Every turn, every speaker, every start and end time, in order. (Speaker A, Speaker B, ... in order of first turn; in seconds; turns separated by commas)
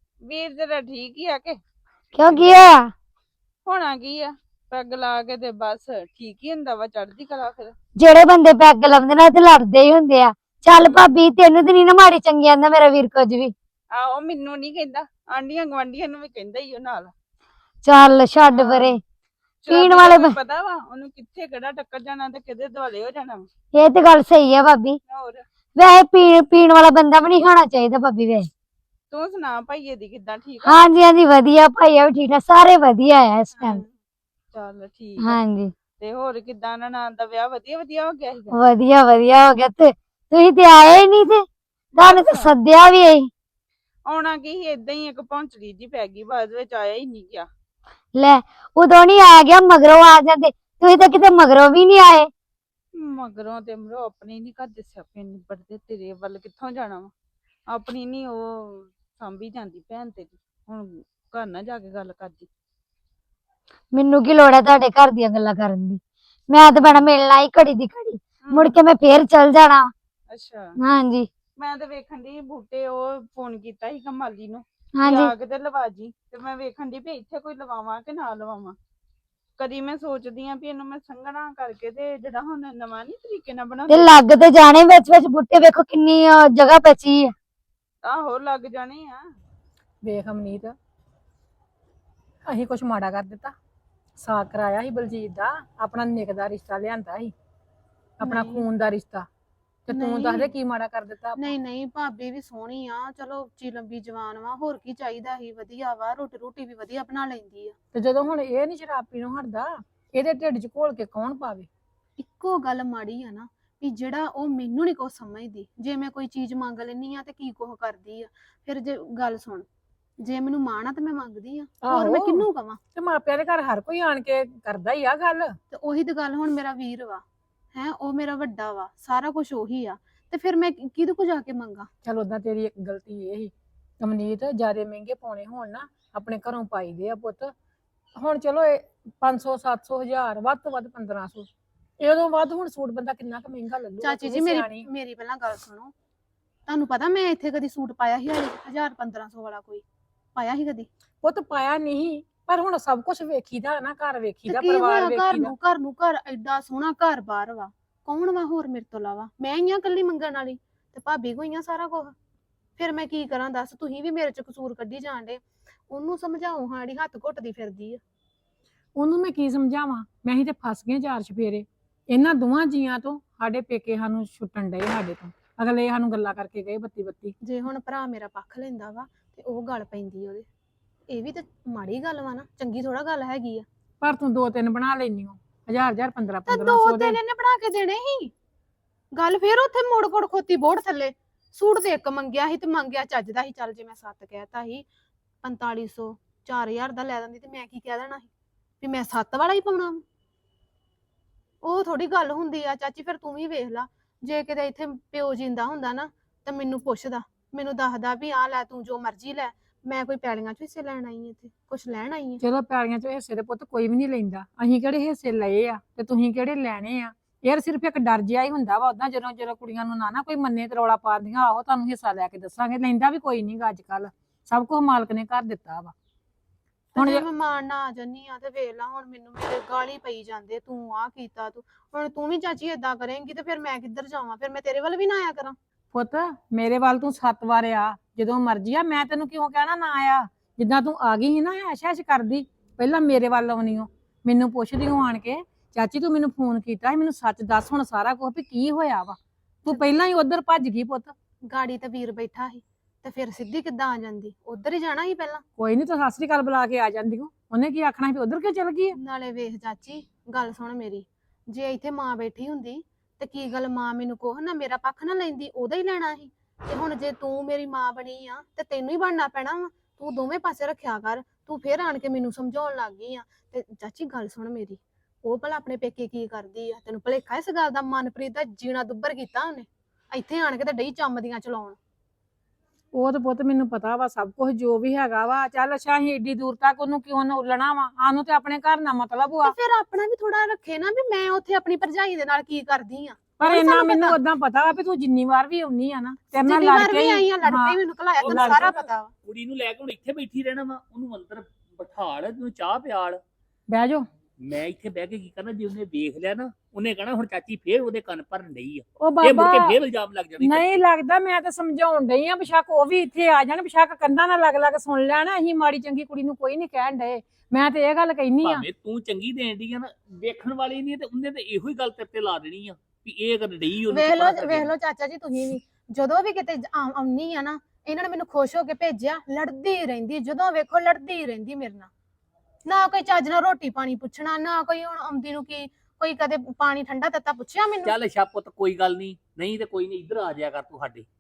Speaker A: 0.3-1.6, Speaker B: 2.1-2.9, Speaker A: 2.2-2.6, Speaker A: 3.7-7.7, Speaker B: 8.0-13.5, Speaker A: 10.7-11.1, Speaker A: 13.9-17.1, Speaker B: 17.8-19.0, Speaker A: 18.5-19.0, Speaker A: 19.6-23.4, Speaker B: 19.7-20.4, Speaker B: 23.7-25.0, Speaker A: 25.1-25.4, Speaker B: 25.8-28.5, Speaker A: 29.1-30.8, Speaker B: 30.7-33.8, Speaker A: 33.5-33.9, Speaker A: 34.5-35.4, Speaker B: 35.2-35.7, Speaker A: 36.0-38.6, Speaker B: 38.5-41.5, Speaker B: 42.0-43.3, Speaker A: 42.0-42.5, Speaker A: 44.1-47.5, Speaker B: 48.1-52.3, Speaker A: 53.0-57.1, Speaker A: 57.7-62.5, Speaker B: 63.9-69.9, Speaker A: 66.7-67.1, Speaker A: 68.4-68.8, Speaker A: 70.3-70.7, Speaker B: 70.8-71.3, Speaker A: 71.6-78.8, Speaker B: 75.0-75.3, Speaker A: 79.6-84.2, Speaker B: 83.9-87.3, Speaker A: 88.0-89.3, Speaker C: 90.0-90.8, Speaker C: 92.5-93.5, Speaker C: 94.2-97.3, Speaker C: 98.2-99.3, Speaker D: 98.2-98.7, Speaker C: 99.9-101.5, Speaker D: 99.9-100.5, Speaker D: 101.4-107.8, Speaker C: 107.9-111.7, Speaker D: 112.2-119.7, Speaker D: 120.2-122.8, Speaker C: 121.8-125.5, Speaker D: 125.7-131.9, Speaker C: 132.1-137.5, Speaker C: 138.2-141.5, Speaker C: 142.0-144.9, Speaker D: 144.0-145.9, Speaker D: 146.7-149.8, Speaker D: 150.3-150.9, Speaker C: 151.2-155.5, Speaker D: 154.5-162.2, Speaker D: 162.8-168.0, Speaker C: 169.0-177.3, Speaker D: 177.4-180.5, Speaker D: 181.1-183.7, Speaker C: 184.0-187.2, Speaker D: 186.5-188.3, Speaker D: 189.1-194.9, Speaker D: 195.4-198.3, Speaker D: 198.8-200.0, Speaker D: 201.6-212.4, Speaker C: 212.4-225.9, Speaker D: 226.9-235.6, Speaker C: 227.0-227.2, Speaker C: 235.9-251.1, Speaker D: 251.5-255.4, Speaker C: 255.6-259.0, Speaker D: 258.9-281.8, Speaker C: 282.9-289.6, Speaker D: 289.4-294.2, Speaker C: 293.4-298.8, Speaker D: 296.4-299.1, Speaker E: 298.2-298.7, Speaker E: 299.2-303.2, Speaker C: 303.7-304.1, Speaker E: 304.4-310.6, Speaker C: 309.0-309.8, Speaker C: 310.4-318.6, Speaker E: 318.4-324.7, Speaker D: 323.9-331.9, Speaker D: 332.7-337.9, Speaker E: 337.8-341.1